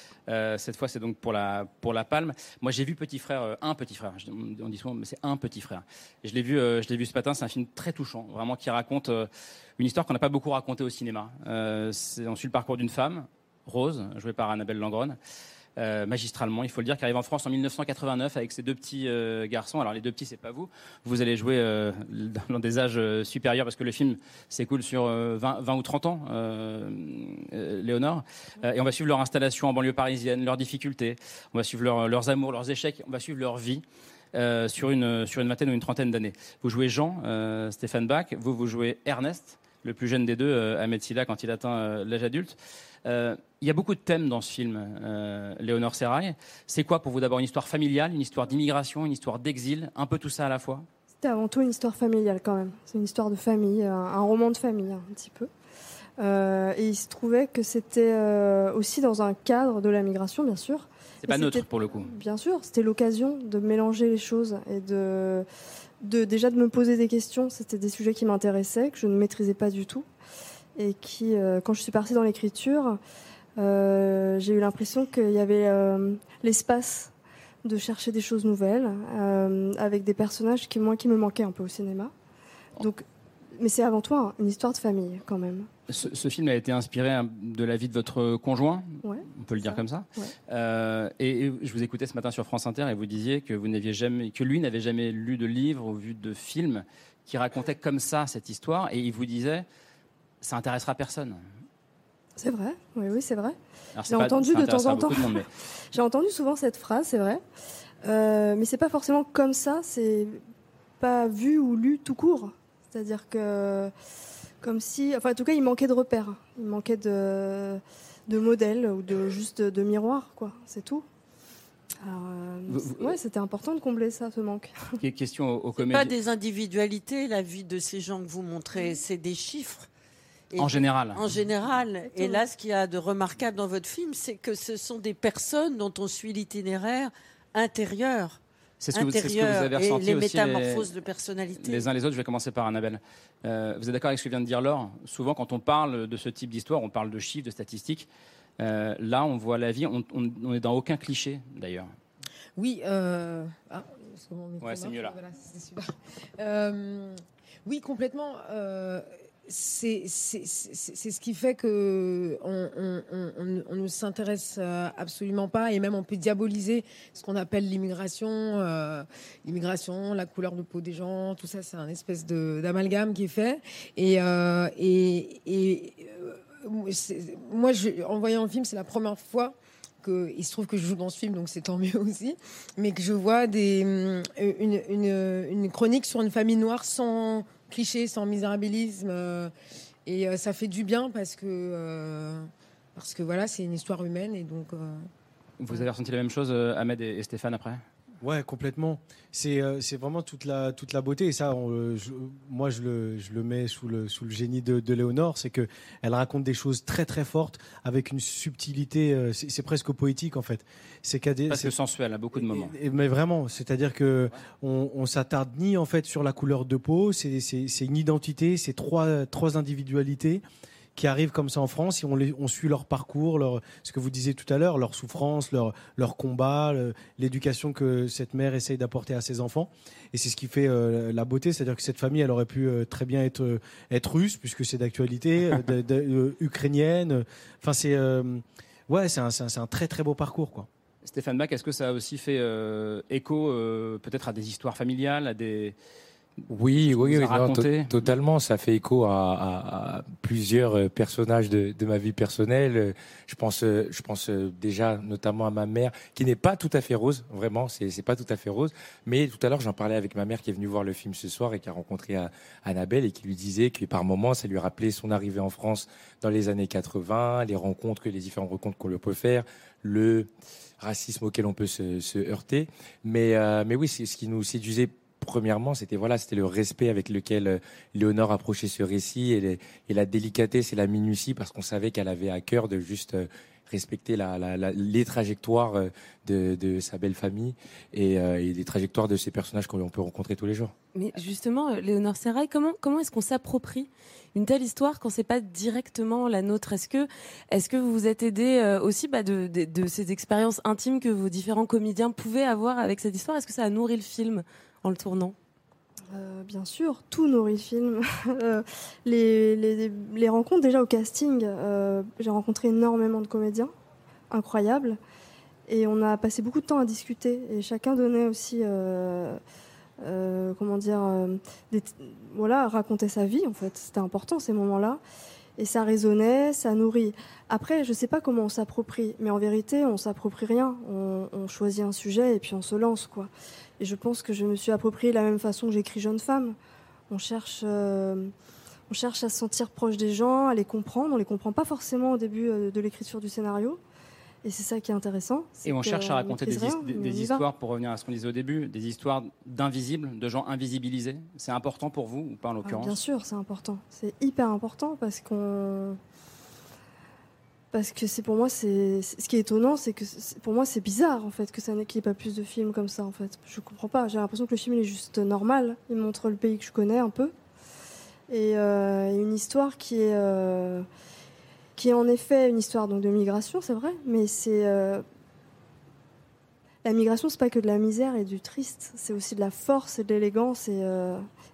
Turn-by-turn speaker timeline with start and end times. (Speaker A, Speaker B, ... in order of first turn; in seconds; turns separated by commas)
Speaker A: 0.3-15.2, Speaker A: 15.8-50.9, Speaker B: 51.2-55.5, Speaker B: 56.2-65.5, Speaker A: 61.2-62.1, Speaker B: 66.0-70.1, Speaker B: 70.8-73.0, Speaker B: 73.6-77.1, Speaker B: 77.7-82.1, Speaker B: 82.8-83.1, Speaker B: 83.6-85.7, Speaker A: 85.9-99.7, Speaker B: 89.0-90.3, Speaker A: 100.4-101.4, Speaker B: 102.4-103.6, Speaker A: 104.0-105.5, Speaker B: 104.1-107.4, Speaker B: 108.0-110.4, Speaker B: 111.0-113.9, Speaker B: 114.6-121.0, Speaker B: 122.0-124.8, Speaker A: 122.7-123.2, Speaker A: 125.0-126.1, Speaker C: 125.8-129.9, Speaker C: 130.5-138.4, Speaker A: 130.6-131.2, Speaker B: 132.1-132.4, Speaker A: 138.8-140.9, Speaker C: 138.9-141.9, Speaker A: 141.6-148.1, Speaker A: 148.6-151.9, Speaker D: 152.6-189.5, Speaker A: 154.6-155.1, Speaker D: 190.1-195.1, Speaker A: 195.6-197.8, Speaker E: 198.2-211.7, Speaker A: 211.5-212.8, Speaker E: 212.3-220.4, Speaker E: 221.0-240.7, Speaker A: 241.0-245.8, Speaker F: 246.5-290.7, Speaker A: 246.7-248.1, Speaker G: 290.9-305.4, Speaker B: 306.1-313.7, Speaker B: 314.3-315.0, Speaker B: 315.7-319.4, Speaker B: 320.0-325.0, Speaker B: 325.6-336.6, Speaker B: 337.1-338.3, Speaker B: 338.9-343.8, Speaker B: 344.4-347.4, Speaker A: 345.6-353.0, Speaker B: 352.6-356.0, Speaker B: 357.7-367.3, Speaker B: 368.3-370.9, Speaker B: 371.8-375.0, Speaker B: 376.8-381.2